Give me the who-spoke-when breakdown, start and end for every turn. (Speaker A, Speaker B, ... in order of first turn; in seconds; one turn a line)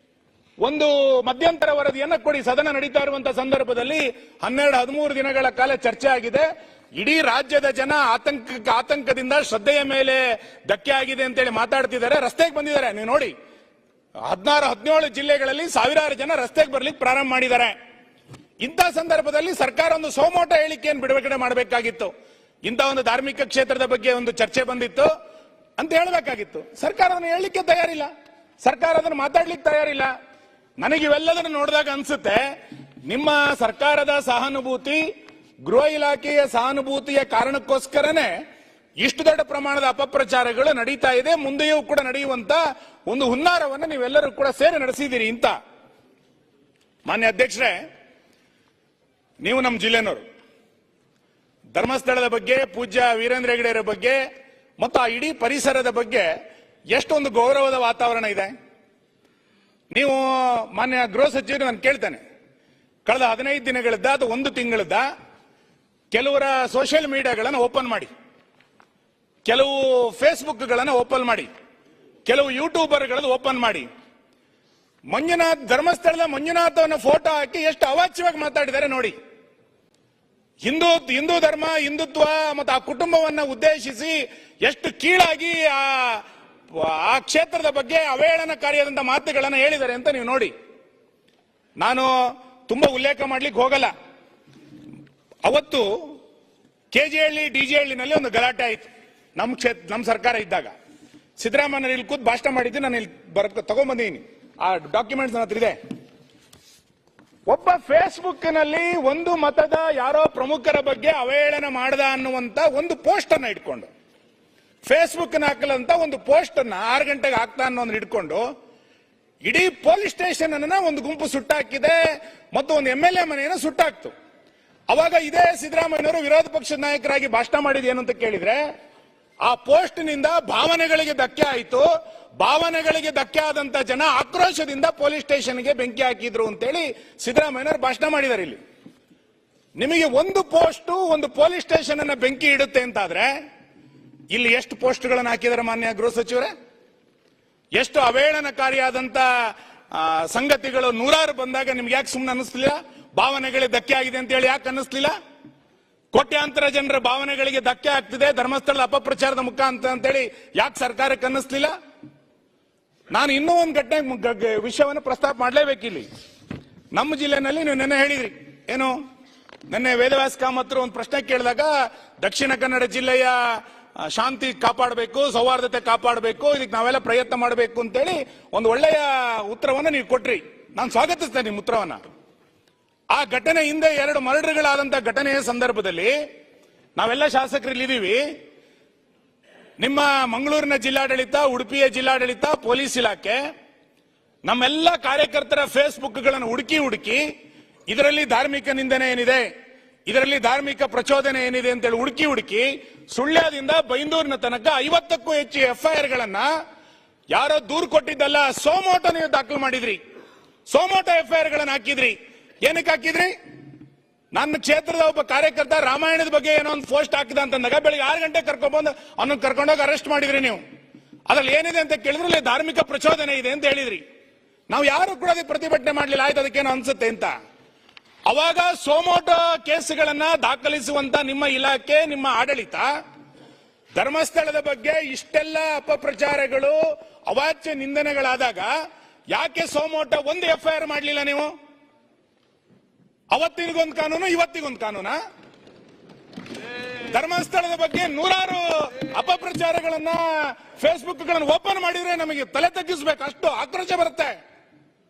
Speaker A: 0.6-13.3
Speaker A: 14.3-17.7
Speaker A: 18.6-22.1
Speaker A: 22.6-25.1
Speaker A: 25.8-28.1
Speaker A: 28.6-30.1
Speaker A: 30.8-32.4
Speaker A: 33.1-35.0
Speaker A: 35.6-38.3
Speaker A: 39.0-45.5
Speaker A: 47.0-47.8
Speaker A: 49.4-50.2
Speaker A: 51.8-54.2
Speaker A: 54.8-56.3
Speaker A: 56.9-58.5
Speaker A: 59.9-62.2
Speaker A: 63.0-65.0
Speaker A: 66.1-68.1
Speaker A: 69.5-71.5
Speaker A: 72.2-73.8
Speaker A: 75.1-79.1
Speaker A: 80.6-90.5
Speaker A: 91.8-92.1
Speaker A: 92.7-93.9
Speaker A: 95.4-96.1
Speaker A: 96.9-100.7
Speaker A: 101.4-105.8
Speaker A: 107.5-113.9
Speaker A: 114.8-118.4
Speaker A: 119.4-122.0
Speaker A: 122.5-124.1
Speaker A: 124.9-128.6
Speaker A: 129.4-131.8
Speaker A: 132.4-138.6
Speaker A: 139.8-143.3
Speaker A: 144.3-146.5
Speaker A: 147.8-155.1
Speaker A: 156.1-161.7
Speaker A: 163.1-166.1
Speaker A: 166.9-168.9
Speaker A: 169.7-171.7
Speaker A: 172.2-173.4
Speaker A: 174.0-182.0
Speaker A: 183.1-186.2
Speaker A: 187.0-188.2
Speaker A: 189.8-193.4
Speaker A: 194.4-197.2
Speaker A: 197.9-199.4
Speaker A: 200.1-206.5
Speaker A: 207.3-210.0
Speaker A: 210.7-213.3
Speaker A: 214.3-220.6
Speaker A: 221.3-224.0
Speaker A: 224.7-227.3
Speaker A: 228.3-232.9
Speaker A: 234.0-236.8
Speaker A: 237.3-238.7
Speaker A: 239.3-241.5
Speaker A: 243.3-245.2
Speaker A: 247.0-254.3